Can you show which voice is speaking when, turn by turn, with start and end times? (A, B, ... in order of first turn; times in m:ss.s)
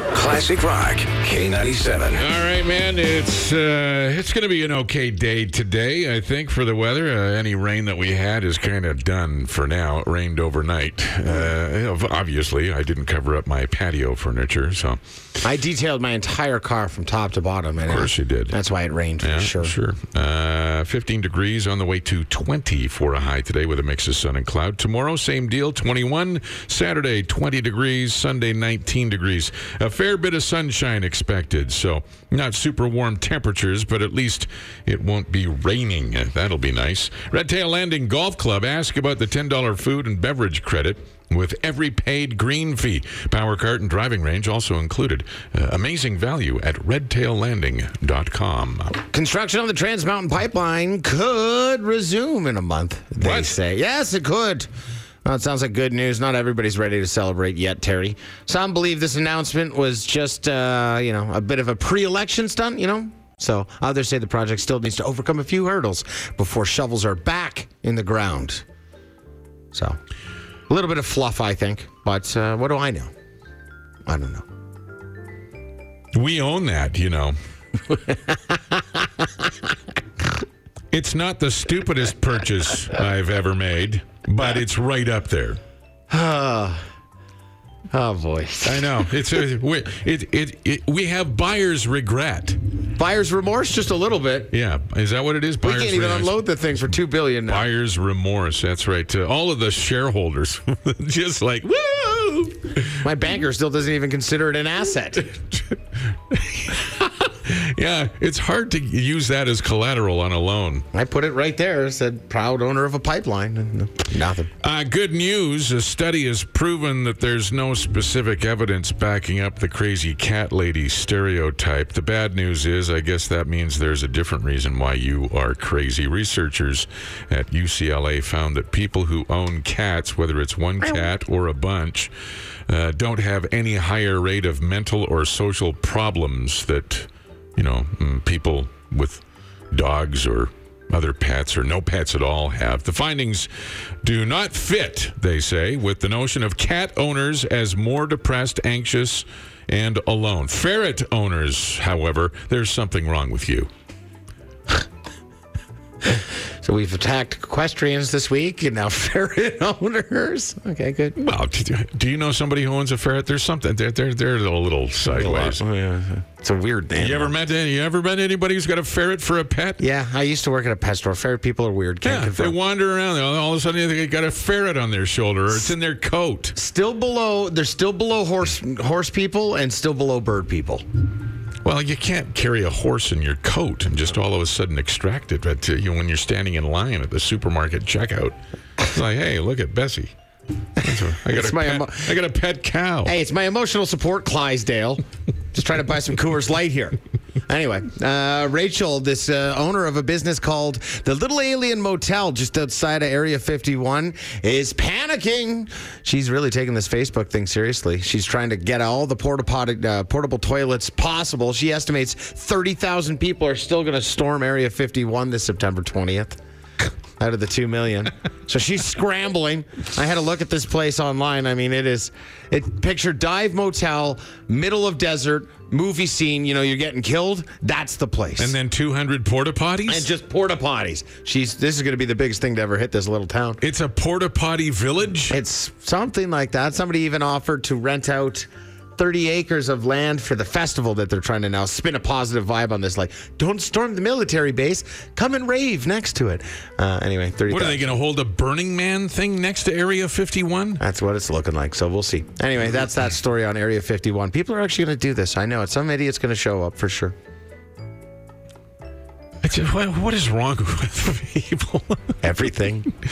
0:00.1-0:02.2 A
0:02.2-0:15.0 B
0:15.4-0:19.8 C
0:17.9-0:18.6 B
0:19.2-0:49.0 B
0:49.1-0:54.7 C
0:53.2-0:53.6 B
0:55.2-1:08.6 C
1:09.7-1:10.0 C
1:10.7-1:13.1 C
1:14.1-1:14.4 C
1:16.1-1:17.4 B
1:17.9-1:19.5 C
1:20.9-1:25.6 B
1:26.1-1:26.8 C
1:27.9-1:29.1 C
1:28.6-1:32.6 B
1:33.0-1:34.5 C
1:34.5-1:36.4 B
1:35.6-1:37.7 C
1:37.5-1:43.0 B
1:43.0-1:45.3 C
1:45.5-1:50.9 B
1:50.9-1:54.5 C
1:54.6-2:12.1 B
2:12.7-2:23.5 B
2:24.0-2:33.7 B
2:36.0-2:41.2 C
2:41.2-2:45.6 B
2:45.1-2:47.3 C
2:47.0-2:49.8 B
2:49.8-2:52.6 C
2:52.0-2:56.6 B
2:56.6-3:00.8 C
3:01.6-3:10.1 B
3:10.8-3:13.2 B
3:10.8-3:12.1 C
3:13.0-3:36.4 C
3:37.2-3:48.6 C
3:48.4-3:50.1 B
3:49.9-3:53.6 C
3:53.6-3:55.4 B
3:55.3-4:08.0 C
4:07.5-4:10.8 B
4:10.8-4:17.2 C
4:19.4-4:22.1 B
4:22.2-4:22.9 C